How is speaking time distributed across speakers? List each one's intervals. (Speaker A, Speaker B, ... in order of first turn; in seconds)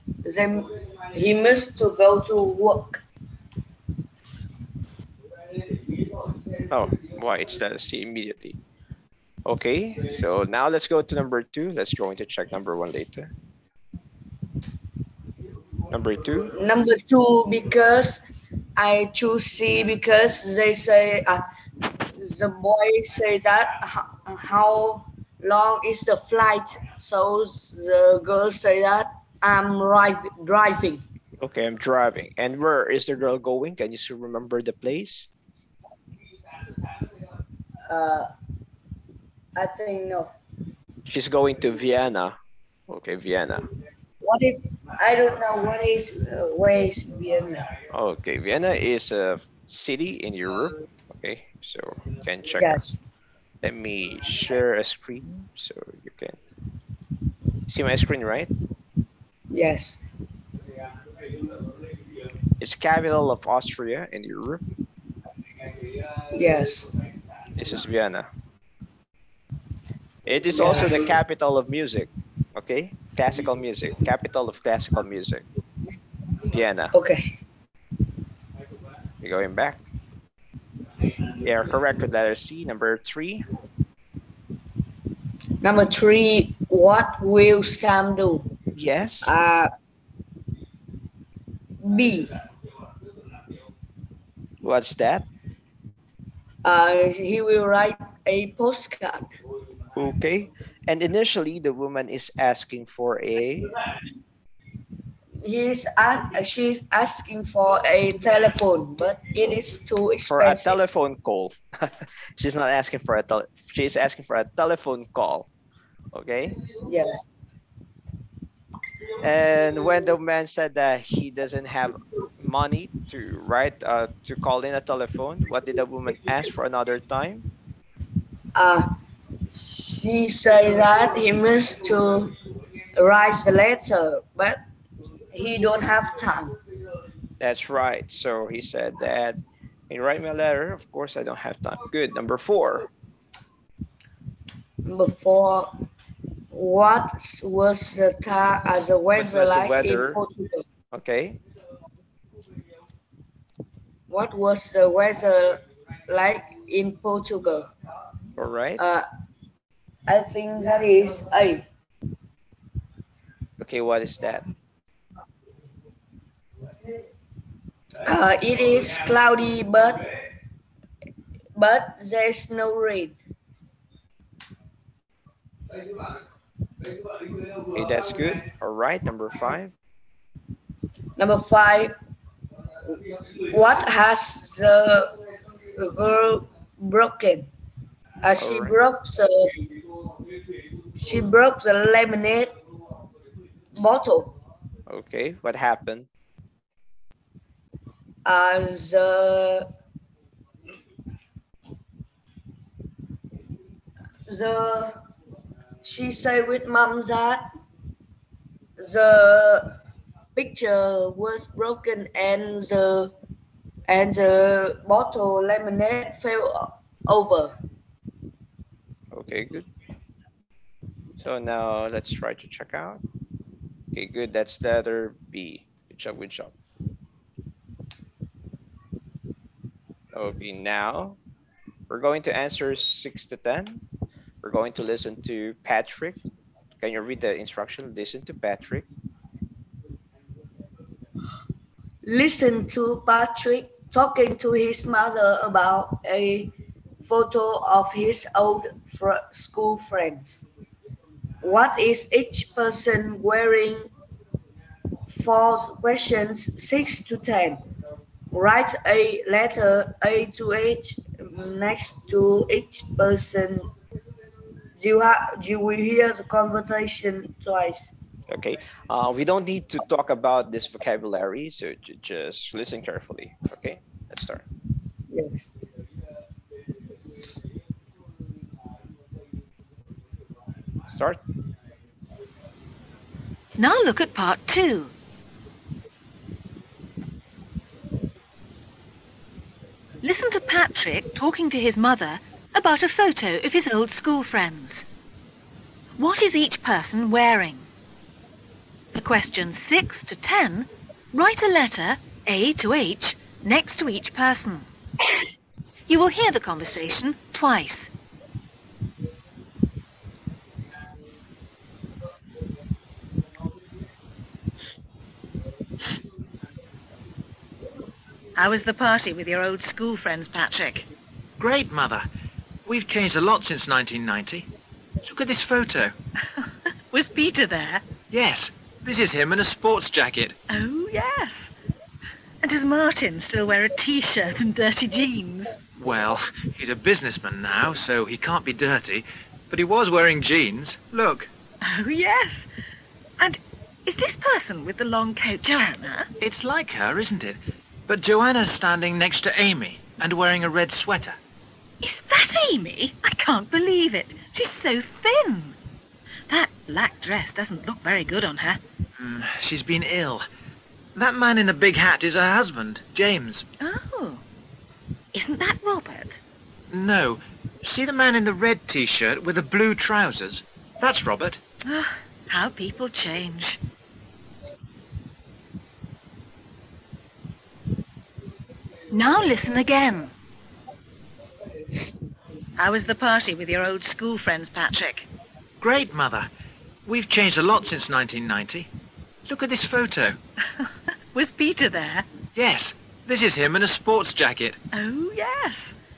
Speaker A: 0.2-3.0, 16.5-18.2, 18.8-21.4, 22.1-31.0, 37.9-38.3, 39.5-40.3, 44.2-47.7, 52.6-53.0, 59.5-60.0, 66.3-66.9, 70.5-71.1, 76.9-77.3, 85.6-88.5, 89.2-89.7, 91.8-92.3, 96.6-99.3, 105.4-110.8, 116.8-117.2, 128.5-128.9, 129.5-132.4, 132.9-134.6, 135.3-136.6, 144.8-145.7, 146.5-150.6, 154.1-157.7, 158.8-159.0, 160.1-161.7, 168.0-170.1, 171.6-173.2, 181.2-181.9, 183.5-185.1, 185.8-187.5, 188.2-189.5, 191.0-192.5, 193.8-194.4, 198.2-199.7, 204.3-205.0, 205.8-207.5, 208.8-209.7, 210.3-213.1, 213.9-217.6, 242.0-246.5, 247.0-250.4, 251.4-253.9, 255.1-257.6, 258.3-263.7, 264.8-267.9, 275.1-275.5
Speaker B: 6.7-8.6, 9.4-13.3, 15.9-16.5, 31.4-35.3, 41.1-43.7, 47.9-52.9, 53.6-56.4, 57.7-58.5, 62.6-64.6, 67.5-68.3, 70.2-75.4, 76.5-76.9, 79.2-79.8, 81.4-83.4, 88.7-89.3, 94.6-95.3, 99.9-103.7, 110.3-115.5, 116.1-116.6, 119.2-127.5, 137.4-142.9, 149.1-150.2, 150.9-151.4, 158.4-158.8, 163.6-164.4, 177.7-179.7, 188.4-188.8, 194.9-196.1, 219.1-219.7, 221.2-223.0, 223.9-226.5, 230.1-231.2, 231.9-233.8, 234.4-236.2, 236.8-238.8, 268.3-274.4, 280.9-281.2
Speaker C: 283.6-284.9, 290.0-294.9, 296.0-297.7, 298.9-304.7, 305.9-307.9, 318.4-320.9, 326.4-327.8, 330.5-331.5, 332.4-335.6, 341.6-342.5, 343.2-346.1, 351.8-355.6, 356.3-358.6, 363.6-364.2, 365.1-366.2, 371.6-373.6, 378.9-380.1, 382.6-385.1, 390.6-392.1, 394.7-395.7
Speaker D: 321.4-322.0, 322.6-324.5, 325.1-325.9, 328.1-330.4, 335.8-341.3, 346.2-351.2, 359.0-360.2, 360.9-363.4, 366.7-371.4, 385.6-386.3, 386.9-388.7, 389.3-390.2, 392.4-394.6